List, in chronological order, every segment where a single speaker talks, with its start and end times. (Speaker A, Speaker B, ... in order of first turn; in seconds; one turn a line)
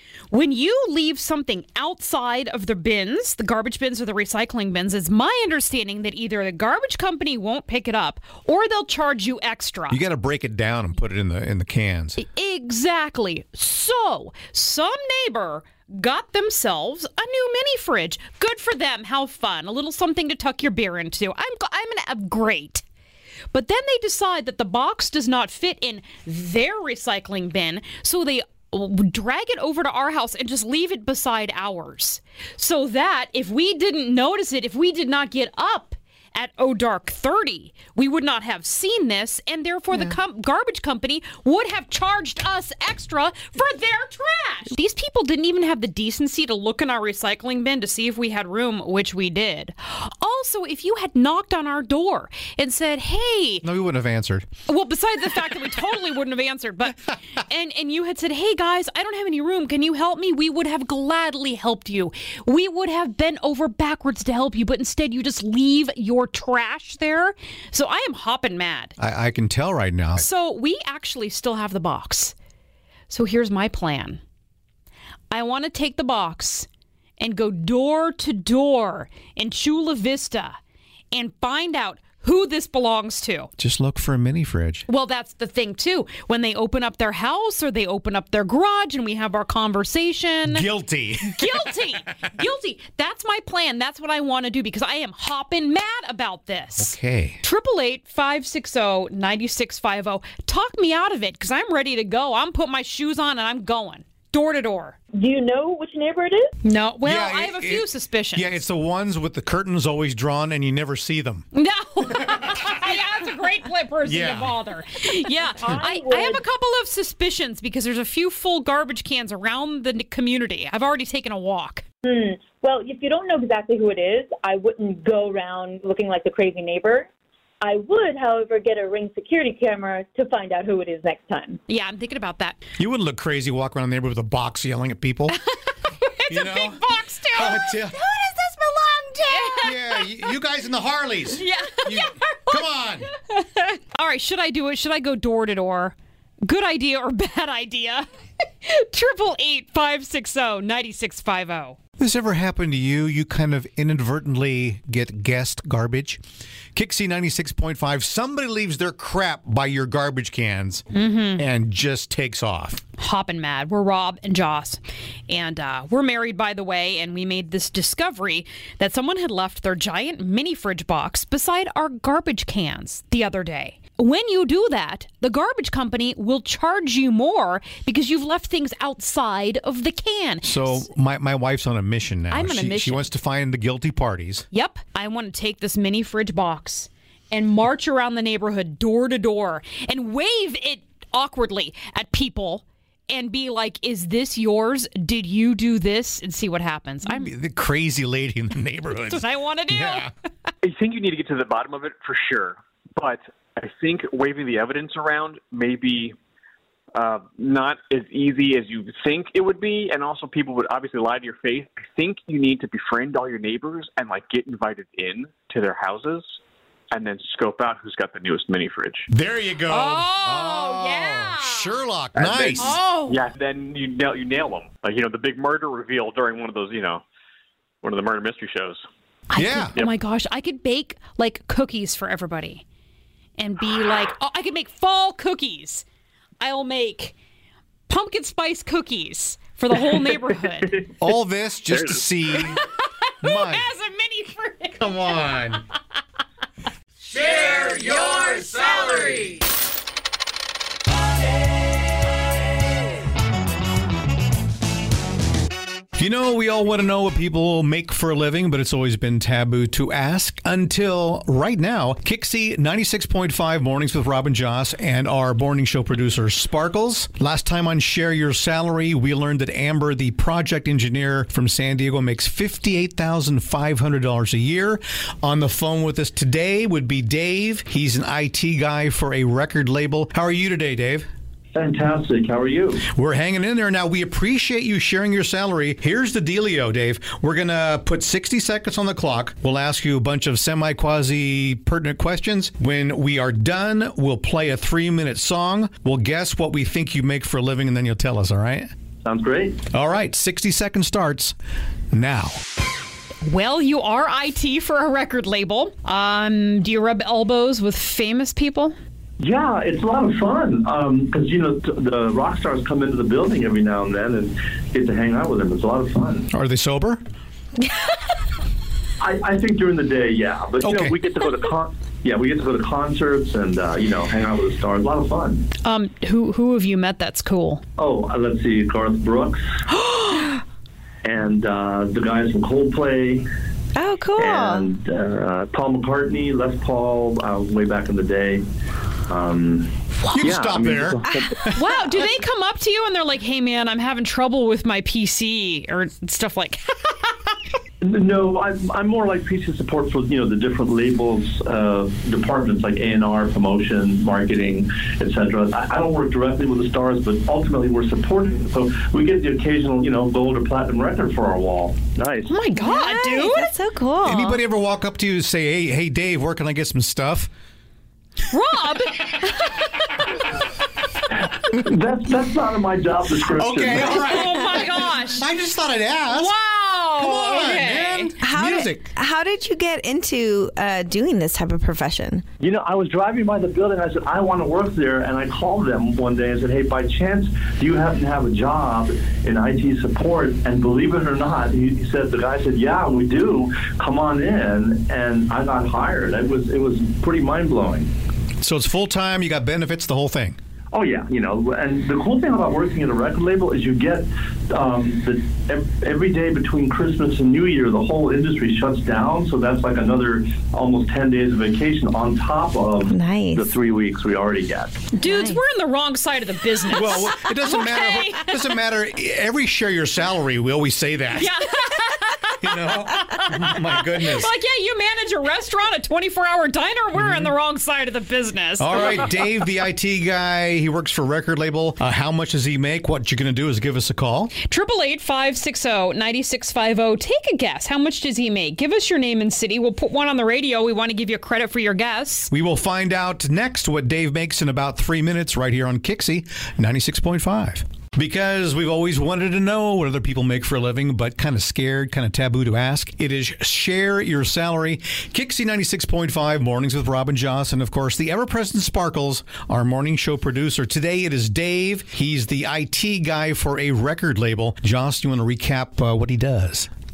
Speaker A: 0.3-10.0
Speaker B: 9.9-12.2
Speaker A: 12.2-22.8
Speaker A: 23.5-53.7
Speaker B: 53.6-54.5
Speaker A: 54.7-68.9
Speaker B: 69.0-70.2
Speaker A: 70.2-72.3
Speaker A: 73.1-74.2
Speaker A: 75.3-76.7
Speaker A: 77.2-80.6
Speaker A: 81.1-83.5
Speaker B: 83.6-84.8
Speaker A: 84.9-90.7
Speaker B: 90.5-91.7
Speaker A: 91.3-105.0
Speaker B: 96.8-97.4
Speaker C: 105.1-106.5
Speaker A: 106.6-108.6
Speaker B: 107.0-111.4
Speaker A: 111.5-121.8
Speaker B: 112.2-112.8
Speaker B: 114.0-114.5
Speaker C: 115.6-116.4
Speaker C: 122.0-127.1
Speaker C: 127.6-131.6
Speaker A: 131.7-132.6
Speaker B: 132.8-135.4
Speaker A: 135.3-137.6
Speaker B: 136.3-136.8
Speaker B: 137.3-138.0
Speaker D: 137.4-139.8
Speaker A: 139.3-139.8
Speaker B: 139.6-143.1
Speaker A: 141.3-142.6
Speaker A: 143.3-148.1
Speaker A: 148.6-151.8
Speaker B: 152.0-156.2
Speaker B: 156.7-160.8
Speaker A: 160.9-161.4
Speaker B: 161.4-162.8
Speaker A: 163.0-180.9
Speaker B: 180.4-184.4
Speaker A: 182.3-183.1
Speaker A: 184.5-197.3
Speaker B: 197.1-200.1
Speaker A: 199.1-200.1
Speaker E: 200.6-206.1
Speaker E: 206.9-216.4
Speaker E: 216.9-219.1
Speaker B: 219.1-222.8
Speaker A: 219.7-221.7
Speaker E: 222.2-227.0
Speaker A: 222.6-223.2
Speaker E: 227.8-228.8
Speaker A: 229.3-232.6
Speaker B: 229.3-229.8
Speaker A: 233.4-235.8
Speaker A: 236.4-237.1
Speaker A: 237.9-240.8
Speaker B: 241.0-242.6
Speaker A: 242.4-245.2
Speaker B: 243.2-243.7
Speaker B: 244.8-245.6
Speaker B: 247.1-249.4
Speaker B: 256.0-281.1
Speaker F: 281.5-282.8
Speaker B: 282.9-298.7
Speaker F: 299.0-299.6
Speaker B: 299.7-301.3
Speaker B: 301.9-302.4
Speaker A: 303.2-308.8
Speaker F: 309.2-316.3
Speaker B: 316.3-317.0
Speaker F: 319.0-325.4
Speaker B: 320.6-321.0
Speaker A: 325.6-327.6
Speaker F: 327.8-329.4
Speaker D: 329.9-330.4
Speaker F: 331.0-333.3
Speaker D: 333.7-334.7
Speaker F: 334.2-338.4
Speaker F: 339.1-341.4
Speaker B: 340.1-341.6
Speaker A: 341.5-347.2
Speaker F: 347.8-362.4
Speaker A: 362.3-363.5
Speaker D: 362.6-364.4
Speaker B: 364.0-367.3
Speaker A: 368.3-369.7
Speaker F: 371.5-374.1
Speaker B: 373.4-376.3
Speaker A: 373.9-375.2
Speaker A: 376.1-378.1
Speaker B: 377.0-378.9
Speaker D: 378.2-382.2
Speaker F: 382.4-397.9
Speaker B: 398.4-400.4
Speaker F: 400.7-414.8
Speaker D: 412.9-413.5
Speaker A: 414.9-418.5
Speaker D: 415.0-415.4
Speaker B: 416.7-421.3
Speaker A: 421.1-429.1
Speaker B: 422.4-424.3
Speaker B: 426.9-427.3
Speaker B: 428.6-434.3
Speaker A: 434.4-442.3
Speaker B: 442.3-466.7